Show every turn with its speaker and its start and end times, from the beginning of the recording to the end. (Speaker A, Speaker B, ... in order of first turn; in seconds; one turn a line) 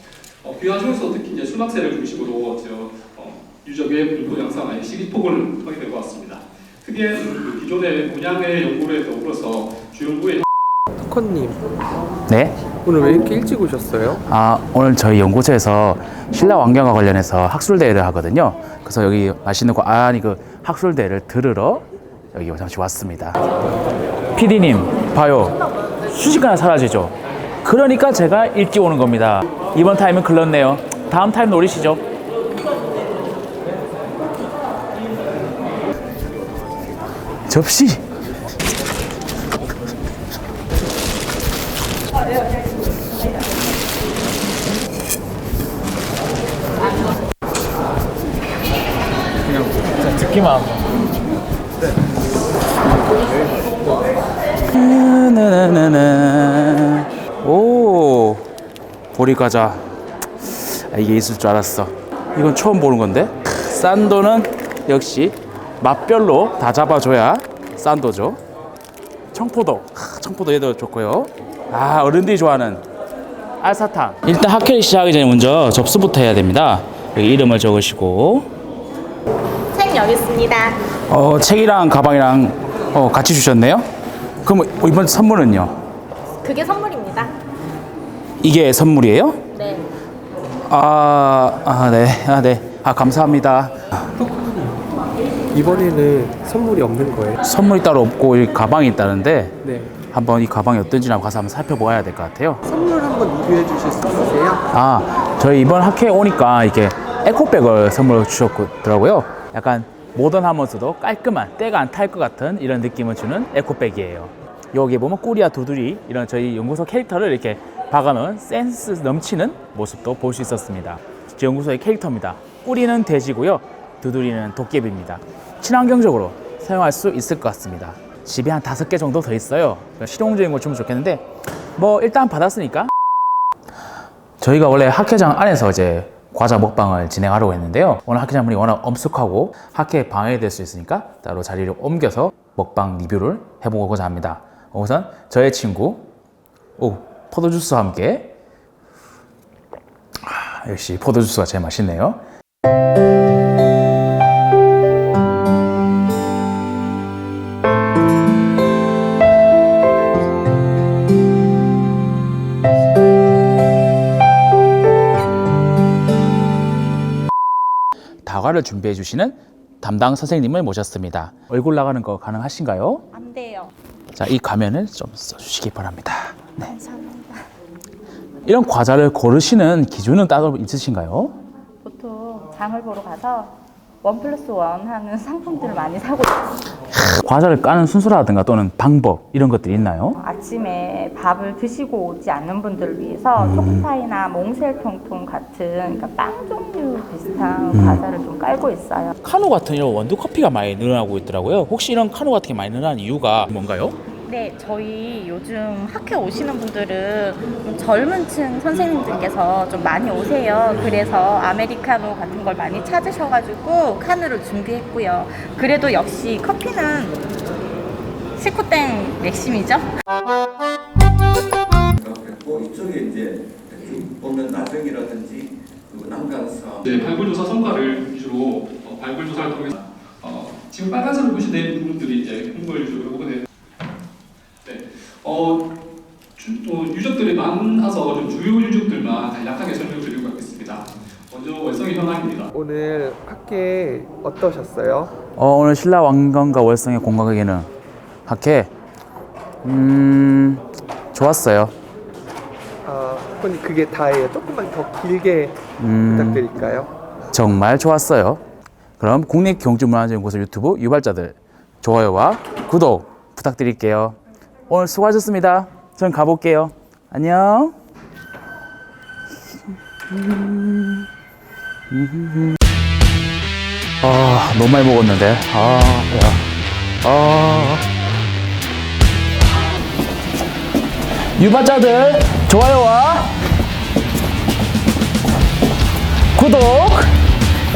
Speaker A: 0.4-10.5
Speaker B: 11.0-11.6
Speaker C: 12.3-12.6
Speaker B: 12.8-14.2
Speaker C: 14.1-23.4
Speaker C: 24.3-25.6
Speaker C: 26.1-32.0
Speaker C: 37.5-38.0
Speaker C: 49.8-50.4
Speaker C: 54.7-58.5
Speaker C: 59.1-68.4
Speaker C: 69.3-72.8
Speaker C: 73.6-78.5
Speaker D: 79.8-80.7
Speaker C: 81.1-83.8
Speaker C: 84.4-85.8
Speaker D: 86.4-87.3
Speaker C: 88.4-89.5
Speaker C: 90.7-94.1
Speaker B: 94.2-94.6
Speaker B: 95.5-97.3
Speaker C: 97.4-102.6
Speaker B: 99.6-99.9
Speaker B: 102.7-104.6
Speaker C: 104.7-131.2
Speaker C: 131.8-132.9
Speaker C: 134.4-146.1
Speaker C: 146.8-148.3
Speaker C: 150.2-152.2
Speaker C: 168.2-173.0
Speaker D: 173.1-173.7
Speaker C: 174.1-176.7
Speaker D: 176.6-177.4
Speaker C: 178.4-181.3
Speaker D: 181.8-186.6
Speaker C: 186.9-190.2
Speaker D: 190.2-199.1
Speaker C: 193.4-193.8
Speaker C: 197.7-198.0
Speaker C: 199.2-203.9
Speaker D: 204.1-217.2
Speaker D: 218.4-219.9
Speaker E: 222.0-226.9
Speaker A: 226.8-233.4
Speaker A: 234.6-235.7
Speaker A: 236.3-242.5
Speaker B: 242.5-245.1
Speaker C: 245.3-247.7
Speaker C: 248.2-248.7
Speaker C: 249.6-250.6
Speaker C: 251.1-251.7
Speaker B: 252.8-256.9
Speaker C: 255.8-256.5
Speaker C: 257.3-258.4
Speaker C: 259.0-264.2
Speaker C: 264.7-267.8
Speaker C: 269.4-271.1
Speaker C: 271.9-272.6
Speaker C: 274.0-276.4
Speaker C: 277.0-277.8
Speaker C: 281.4-283.3
Speaker C: 286.3-287.1